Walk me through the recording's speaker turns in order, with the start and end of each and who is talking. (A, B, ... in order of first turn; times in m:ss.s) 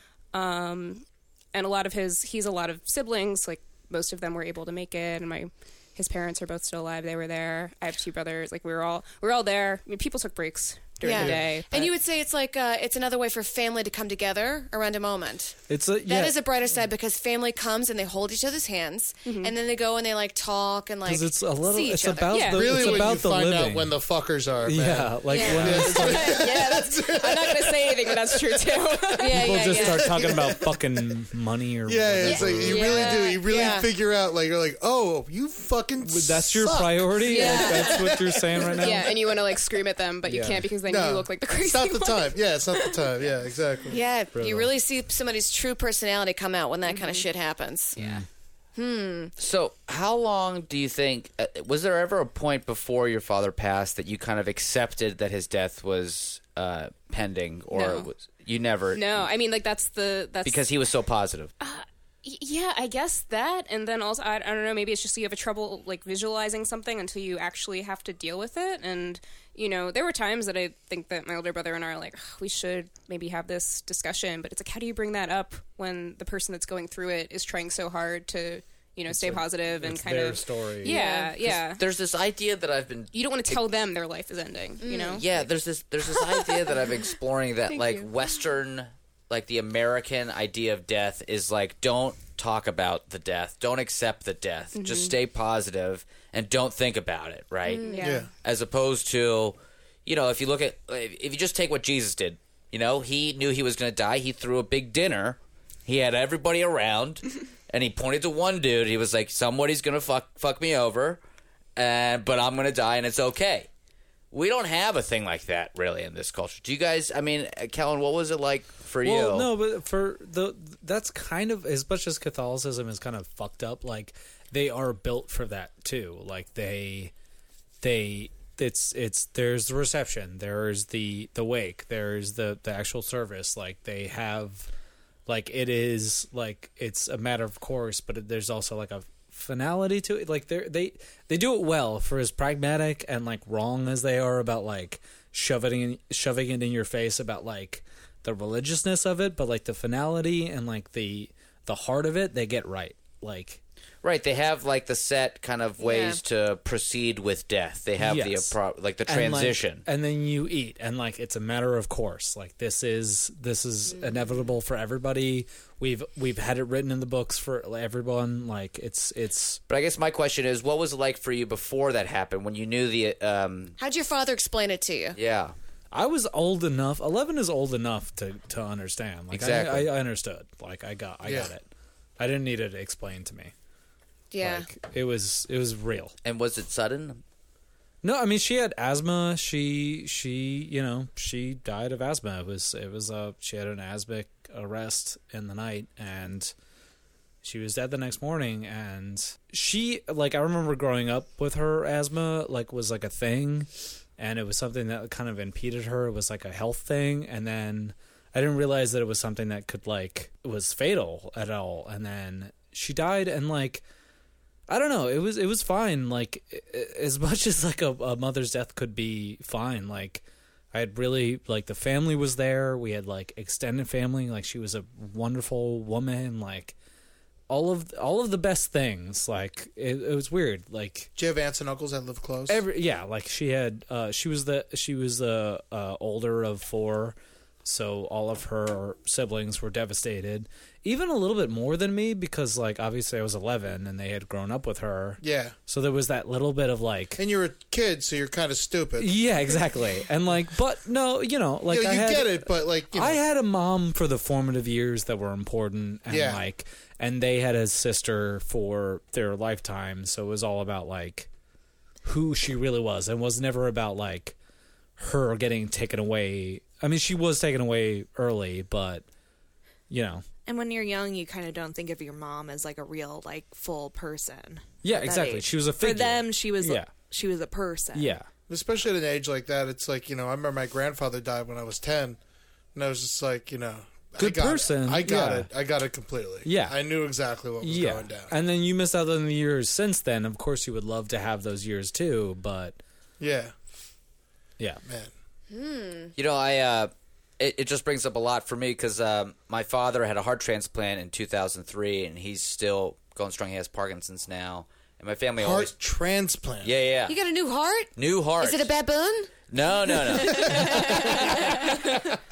0:00.3-0:11.9 A
0:11.0-0:23.0 B
0:11.1-0:11.4 C
0:15.7-0:16.4 D
0:19.2-0:19.5 A
0:21.0-0:24.0 D
0:22.3-0:22.6 A
0:22.5-0:28.8 C
0:24.6-0:26.5 D
0:25.3-0:25.8 B
0:25.3-0:29.8 A
0:29.2-0:30.5 B
0:29.3-0:33.2 D
0:30.1-0:30.6 C
0:31.8-0:37.2 C
0:32.3-0:33.8 A
0:32.5-0:33.9 B
0:36.0-0:39.2 D
0:37.3-0:38.0 A
0:37.3-0:38.8 B
0:37.8-0:38.4 C
0:38.7-0:42.9 A
0:40.2-0:40.7 D
0:40.9-0:44.0 C
0:43.9-0:48.0 B
0:44.3-0:44.7 D
0:46.9-0:47.2 A
0:47.9-0:48.2 D
0:48.0-0:48.2 A
0:48.7-0:49.3 B
0:49.4-0:59.3 E
0:57.7-0:58.1 A
0:58.9-1:00.6 A
1:00.4-1:01.5 E
1:01.6-1:21.8 A
1:19.1-1:21.0 D
1:20.8-1:21.3 B
1:21.5-1:23.6 E
1:23.1-1:25.2 A
1:24.8-1:25.2 B
1:25.1-1:37.9 E
1:34.7-1:35.1 A
1:37.6-1:38.2 B
1:37.8-1:38.3 A
1:38.0-1:38.3 C
1:38.4-1:51.2 E
1:51.8-1:53.7 E
1:54.3-1:59.5 E
1:59.0-2:07.1 D
2:07.8-2:14.7 D
2:15.2-2:33.6 D
2:34.0-2:39.8 E
2:35.8-2:36.2 B
2:38.0-2:49.6 D
2:49.7-2:53.8 E
2:53.8-2:55.2 B
2:55.1-2:55.5 E
2:55.9-3:01.6 D
2:59.3-2:59.9 E
3:01.2-3:01.5 C
3:02.2-3:03.5 D
3:04.3-3:04.7 B
3:04.4-3:06.1 D
3:06.2-3:07.2 E
3:08.0-3:16.5 D
3:17.4-3:33.8 D
3:34.7-3:46.7 D
3:47.5-3:51.1 D
3:51.2-3:52.6 C
3:52.5-4:07.2 D
4:05.2-4:05.5 C
4:07.2-4:09.1 C
4:09.0-4:21.3 D
4:11.7-4:13.2 C
4:16.1-4:16.4 C
4:22.0-4:24.4 D
4:25.0-4:29.0 D
4:29.9-4:30.3 D
4:30.4-4:38.2 F
4:34.8-4:36.9 D
4:37.9-4:38.3 D
4:38.5-4:42.2 C
4:42.7-4:48.3 C
4:44.2-4:45.5 D
4:46.4-4:46.8 D
4:47.6-4:52.8 D
4:53.2-4:53.5 C
4:54.8-4:55.1 C
4:55.5-4:56.1 B
4:56.2-5:05.7 E
5:05.4-5:06.7 C
5:06.6-5:07.2 E
5:07.1-5:09.4 B
5:08.0-5:08.7 E
5:09.5-5:11.6 E
5:09.9-5:11.5 B